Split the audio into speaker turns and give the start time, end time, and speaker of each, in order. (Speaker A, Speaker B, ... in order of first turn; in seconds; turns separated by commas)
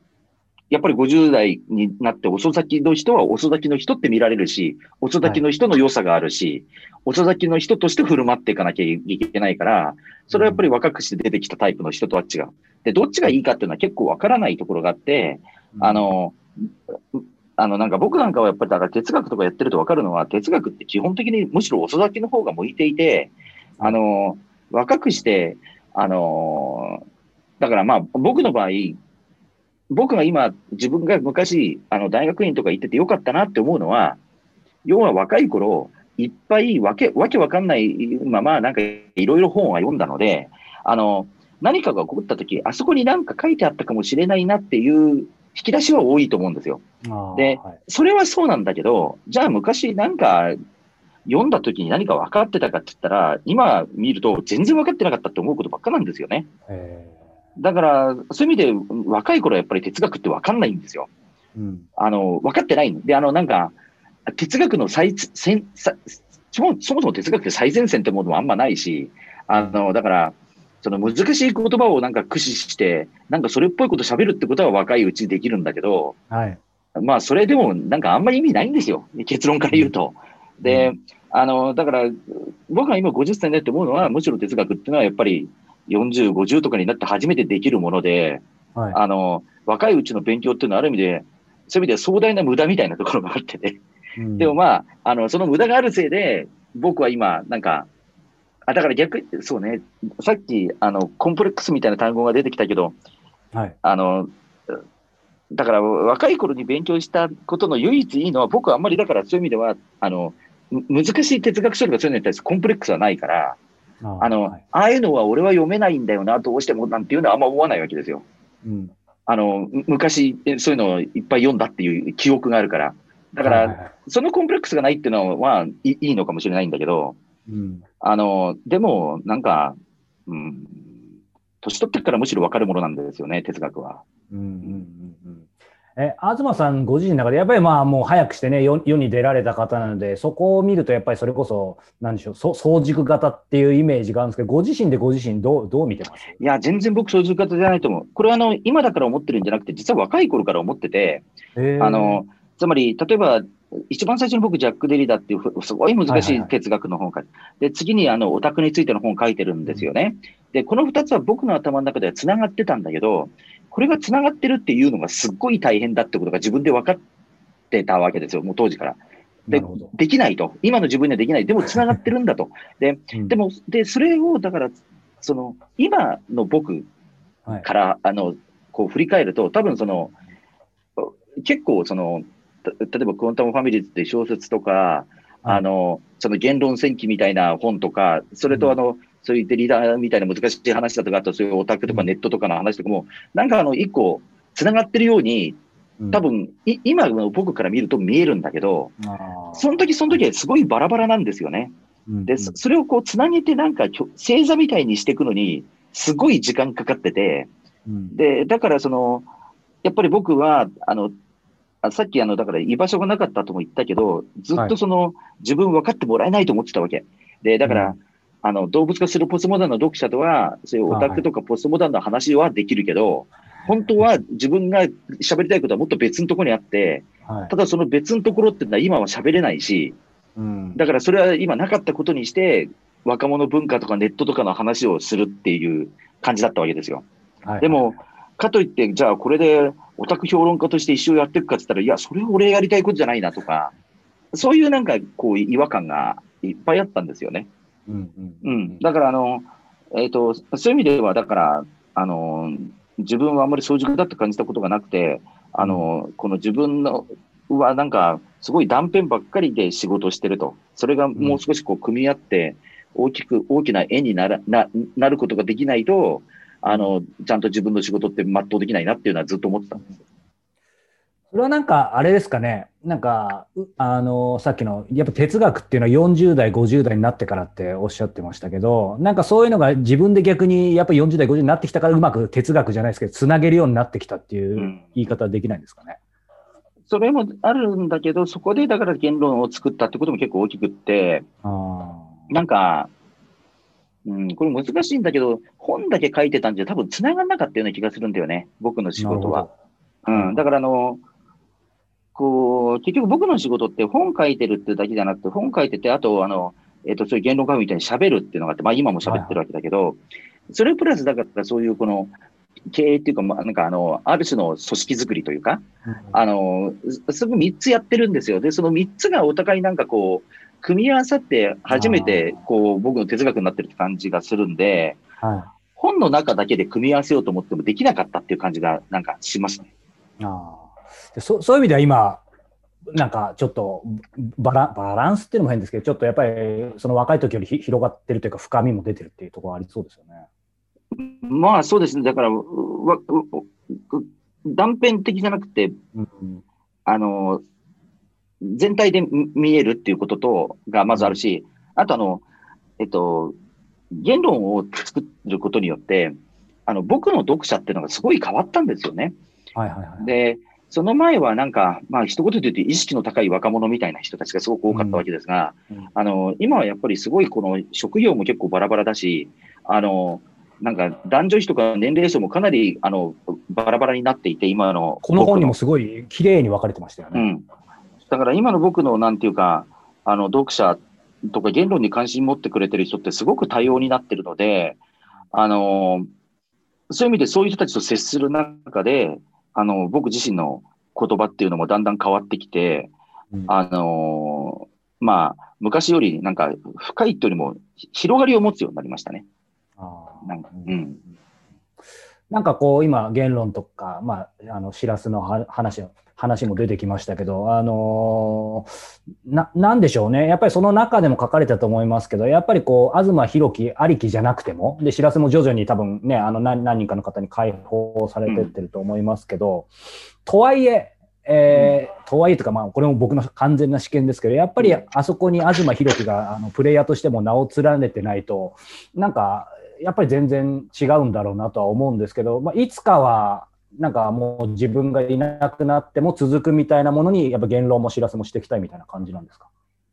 Speaker A: 0.7-27.0, Speaker B: 10.3-10.7, Speaker B: 15.8-16.1, Speaker A: 27.6-29.0, Speaker A: 29.9-34.2, Speaker A: 34.9-46.8, Speaker B: 47.0-47.8, Speaker A: 47.3-50.6, Speaker A: 51.3-56.5, Speaker B: 56.7-57.2, Speaker A: 57.6-61.1, Speaker B: 61.5-61.9, Speaker A: 62.0-63.8, Speaker A: 64.3-76.2, Speaker B: 69.5-69.8, Speaker B: 76.3-76.6, Speaker A: 77.0-93.8, Speaker B: 80.7-80.9, Speaker B: 94.2-94.6, Speaker A: 94.4-97.9, Speaker A: 98.7-103.0, Speaker A: 103.8-104.8, Speaker A: 105.5-113.6, Speaker B: 114.0-114.6, Speaker A: 114.2-118.2, Speaker B: 118.6-118.9, Speaker A: 119.3-127.2, Speaker B: 123.4-123.9, Speaker B: 127.5-127.8, Speaker A: 128.0-129.8, Speaker A: 130.3-130.9, Speaker A: 131.6-134.0, Speaker B: 134.3-146.4, Speaker A: 146.4-151.3, Speaker B: 151.6-152.2, Speaker A: 151.8-167.0, Speaker B: 156.1-156.5, Speaker A: 167.7-176.9, Speaker B: 169.5-169.9, Speaker A: 177.5-180.1, Speaker A: 181.0-195.6, Speaker A: 196.1-198.9, Speaker B: 199.0-200.2, Speaker A: 199.6-201.7, Speaker B: 202.1-202.6, Speaker A: 202.3-207.5, Speaker B: 207.9-208.2, Speaker A: 208.1-209.3, Speaker A: 209.8-211.1, Speaker A: 211.8-230.0, Speaker B: 217.7-218.0, Speaker B: 220.9-221.2, Speaker B: 223.6-224.1, Speaker B: 227.3-227.5, Speaker B: 230.4-230.8, Speaker A: 230.8-237.1, Speaker B: 237.4-237.9, Speaker A: 237.6-243.7, Speaker A: 244.3-247.5, Speaker B: 247.9-248.8, Speaker A: 248.4-269.9, Speaker B: 255.6-255.9, Speaker B: 261.2-261.4, Speaker B: 271.3-286.0, Speaker A: 284.6-284.8, Speaker A: 286.9-291.2, Speaker B: 291.4-292.3, Speaker A: 292.3-292.9, Speaker A: 294.1-299.5, Speaker B: 299.0-299.5, Speaker B: 300.1-300.4, Speaker A: 300.1-301.0, Speaker A: 302.1-312.1, Speaker B: 309.1-309.4, Speaker A: 312.7-325.0, Speaker B: 315.8-316.2, Speaker B: 321.7-322.4, Speaker B: 325.2-325.5, Speaker A: 325.8-329.7, Speaker B: 330.2-332.2, Speaker B: 332.9-340.2, Speaker A: 340.9-345.8, Speaker B: 345.9-346.4, Speaker A: 346.9-347.4, Speaker A: 348.4-352.2, Speaker A: 352.8-353.4, Speaker A: 353.9-356.1, Speaker A: 356.7-359.1, Speaker B: 359.6-360.1, Speaker A: 360.0-375.5, Speaker B: 364.7-365.0, Speaker B: 375.0-377.3, Speaker A: 377.1-377.5, Speaker A: 378.1-384.8, Speaker A: 385.3-386.1, Speaker A: 386.9-392.9, Speaker A: 393.5-399.2, Speaker B: 399.8-400.8, Speaker A: 400.2-401.0, Speaker B: 402.3-419.7, Speaker A: 418.3-418.5, Speaker B: 420.2-439.5